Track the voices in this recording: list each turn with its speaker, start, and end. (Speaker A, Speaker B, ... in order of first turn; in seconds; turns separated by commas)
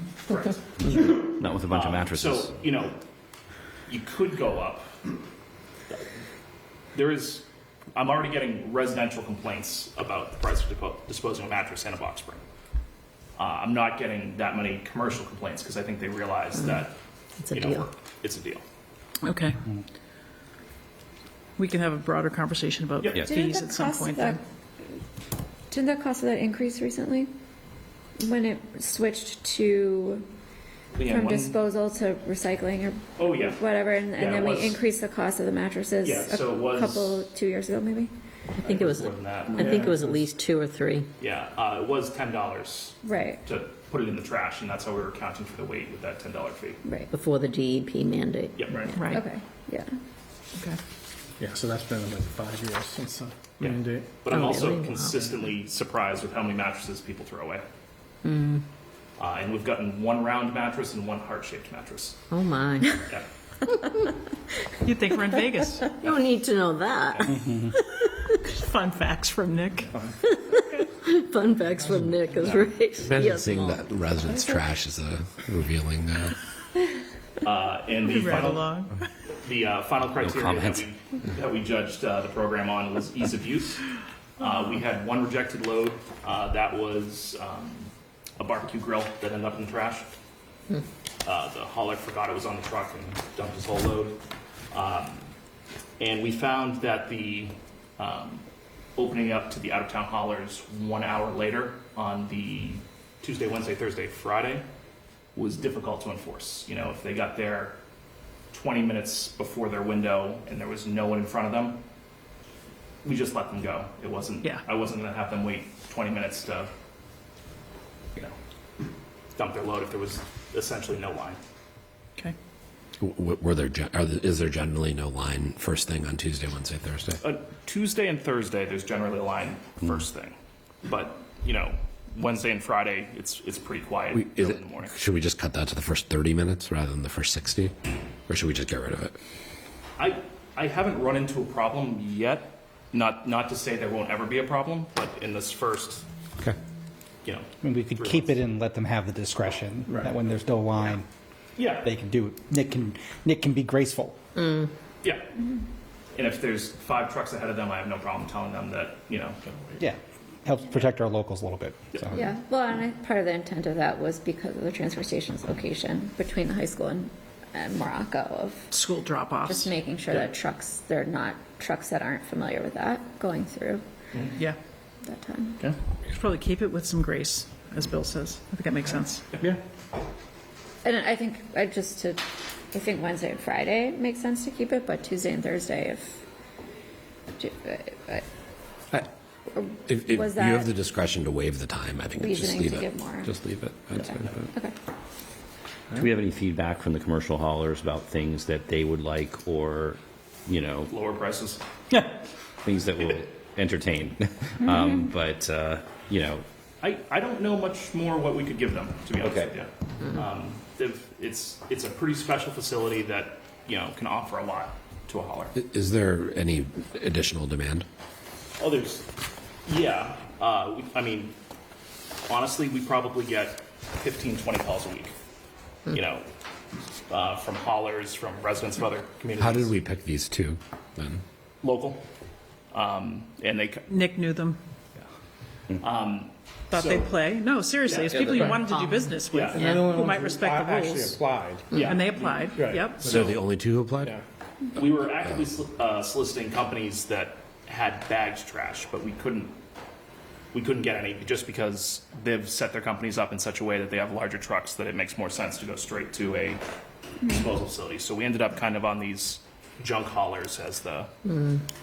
Speaker A: 0.3-3.0, Speaker B: 0.8-2.5, Speaker A: 3.9-4.9, Speaker A: 6.9-12.4, Speaker A: 13.4-18.6, Speaker C: 17.4-17.8, Speaker D: 19.2-19.6, Speaker D: 21.6-24.4, Speaker E: 23.2-24.4, Speaker E: 25.7-27.3, Speaker E: 28.2-30.2, Speaker A: 30.9-31.6, Speaker E: 31.1-38.1, Speaker A: 33.2-33.6, Speaker A: 34.2-34.8, Speaker A: 36.0-37.3, Speaker C: 38.6-41.1, Speaker A: 38.6-39.9, Speaker E: 39.5-39.9, Speaker F: 39.6-40.2, Speaker A: 41.2-46.8, Speaker E: 43.0-43.4, Speaker E: 46.8-47.1, Speaker C: 47.1-48.7, Speaker A: 48.6-48.9, Speaker D: 48.9-49.3, Speaker E: 49.0-49.9, Speaker F: 51.4-54.2, Speaker A: 53.6-57.6, Speaker C: 54.3-55.1, Speaker C: 58.2-58.6, Speaker A: 59.2-62.2, Speaker C: 62.3-63.0, Speaker D: 64.8-66.0, Speaker C: 66.0-67.3, Speaker G: 67.3-67.8, Speaker D: 68.5-70.0, Speaker C: 70.3-73.8, Speaker F: 71.8-72.7, Speaker H: 73.0-76.4, Speaker A: 77.4-78.8, Speaker D: 78.0-79.0, Speaker A: 79.4-83.8, Speaker B: 80.2-80.8, Speaker A: 84.4-90.1, Speaker A: 91.2-94.2, Speaker A: 94.7-95.3, Speaker A: 96.0-98.5, Speaker A: 99.0-104.6, Speaker A: 105.3-107.8, Speaker A: 108.5-111.8, Speaker A: 113.0-116.7, Speaker A: 119.4-121.4, Speaker H: 123.0-127.2, Speaker A: 127.2-134.9, Speaker H: 134.1-137.7, Speaker H: 138.3-139.2, Speaker A: 140.0-146.1, Speaker A: 147.2-148.4, Speaker G: 147.6-151.1, Speaker A: 151.6-151.9, Speaker G: 151.8-154.2, Speaker C: 154.4-154.7, Speaker A: 155.0-155.3, Speaker A: 156.1-159.4, Speaker G: 159.8-162.3, Speaker E: 162.1-168.7, Speaker D: 168.7-169.7, Speaker E: 169.4-173.8, Speaker E: 175.0-175.6, Speaker D: 176.1-179.3, Speaker E: 180.8-186.2, Speaker E: 187.4-188.3, Speaker E: 189.5-190.7, Speaker H: 189.9-194.5, Speaker E: 192.2-193.3, Speaker E: 193.9-194.7, Speaker B: 195.9-200.9, Speaker A: 200.9-201.6, Speaker B: 202.6-206.4, Speaker A: 206.8-215.5, Speaker B: 209.2-209.5, Speaker H: 215.6-217.9, Speaker A: 218.6-219.1, Speaker A: 219.7-221.3, Speaker A: 222.3-225.1, Speaker A: 225.9-226.2, Speaker A: 227.1-229.8, Speaker H: 229.4-231.2, Speaker A: 231.6-232.0, Speaker A: 232.7-233.9, Speaker D: 233.9-234.6, Speaker A: 235.8-237.1, Speaker D: 236.7-241.2, Speaker A: 237.9-238.5, Speaker F: 238.2-238.7, Speaker C: 238.8-239.9, Speaker A: 239.3-239.8, Speaker F: 239.4-241.9, Speaker D: 241.7-243.1, Speaker A: 241.7-243.4, Speaker F: 242.6-243.3, Speaker H: 243.0-244.2, Speaker A: 244.8-249.6, Speaker A: 250.5-256.6, Speaker A: 257.2-261.1, Speaker C: 261.3-261.6